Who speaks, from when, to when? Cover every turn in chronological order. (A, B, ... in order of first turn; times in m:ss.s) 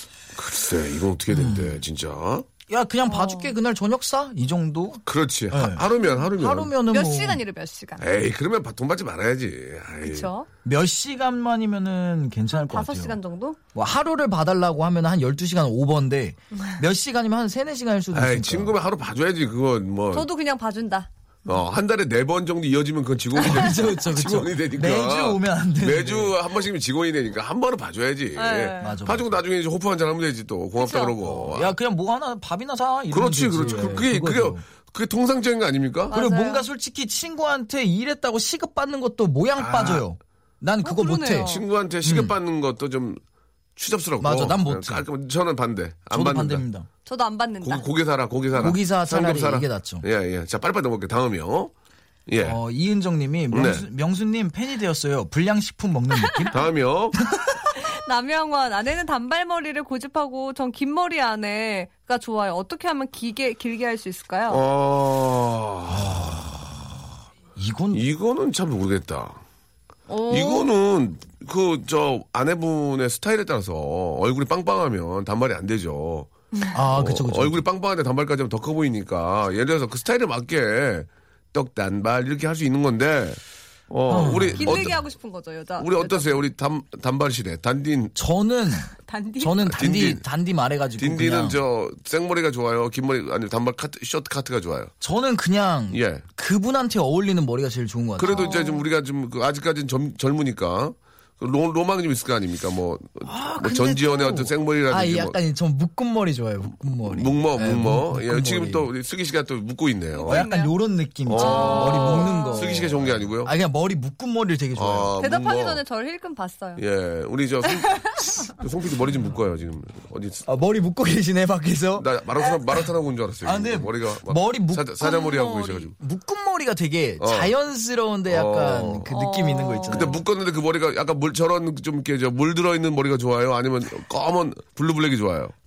0:00.4-0:02.5 A
0:01.3-0:01.8 B
0:02.7-0:07.4 B
0:03.1-0:03.5 C
0:05.1-0:06.7 A
0:06.9-0:08.0 C
0:08.0-0:10.3 A
0:10.0-0:10.5 C
0:10.6-0:13.2 B
0:12.7-0:13.6 C
0:13.8-0:18.7 B
0:18.1-0:20.3 A
0:20.1-0:21.1 C
0:21.5-0:31.8 A
0:23.4-0:26.3 B
0:28.4-0:29.0 C
0:28.8-0:29.3 B
0:30.8-0:31.2 C
0:31.2-0:34.6 B
0:33.1-0:36.1 A
0:33.6-0:34.0 C
0:36.1-0:36.6 C
0:36.1-0:41.5 B
0:39.6-0:40.1 A
0:40.8-0:41.6 C
0:41.4-0:43.2 A
0:42.0-0:42.4 B
0:43.8-0:46.6 A
0:44.2-0:45.1 B
0:46.1-0:46.9 B
0:47.1-0:47.9 C
0:47.6-0:51.7 A
0:48.6-0:50.1 B
0:52.3-0:52.6 A
0:52.4-0:56.6 B
0:53.5-0:53.9 A
0:56.2-0:56.5 C
0:56.5-0:57.2 A
0:57.3-0:57.6 B
0:57.8-1:04.6 C
1:04.5-1:06.8 A
1:05.9-1:06.6 B
1:07.6-1:08.0 B
1:07.9-1:09.4 A
1:10.1-1:10.7 C
1:10.3-1:16.3 A
1:16.7-1:17.6 B
1:16.9-1:23.4 A
1:23.9-1:25.0 A
1:24.1-1:25.0 B
1:24.6-1:26.5 C
1:25.8-1:28.2 A
1:28.2-1:31.6 B
1:29.0-1:29.6 C
1:29.7-1:30.2 A
1:31.0-1:34.9 A
1:35.0-1:38.5 B
1:35.9-1:36.2 A
1:38.2-1:45.4 A
1:38.3-1:38.8 C
1:43.2-1:48.9 B
1:46.9-1:50.5 A
1:50.2-1:50.7 C
1:50.3-1:55.1 B
1:51.3-1:53.5 A
1:51.4-1:52.8 C
1:54.8-1:55.8 A
1:55.2-1:56.8 C
1:56.8-2:00.4 A
1:57.7-1:58.5 C
2:00.5-2:02.1 B
2:02.0-2:05.9 A
2:03.4-2:05.0 B
2:05.0-2:05.9 C
2:06.0-2:10.2 B
2:07.2-2:07.5 A
2:08.3-2:09.1 A
2:09.1-2:10.2 C
2:09.9-2:15.5 A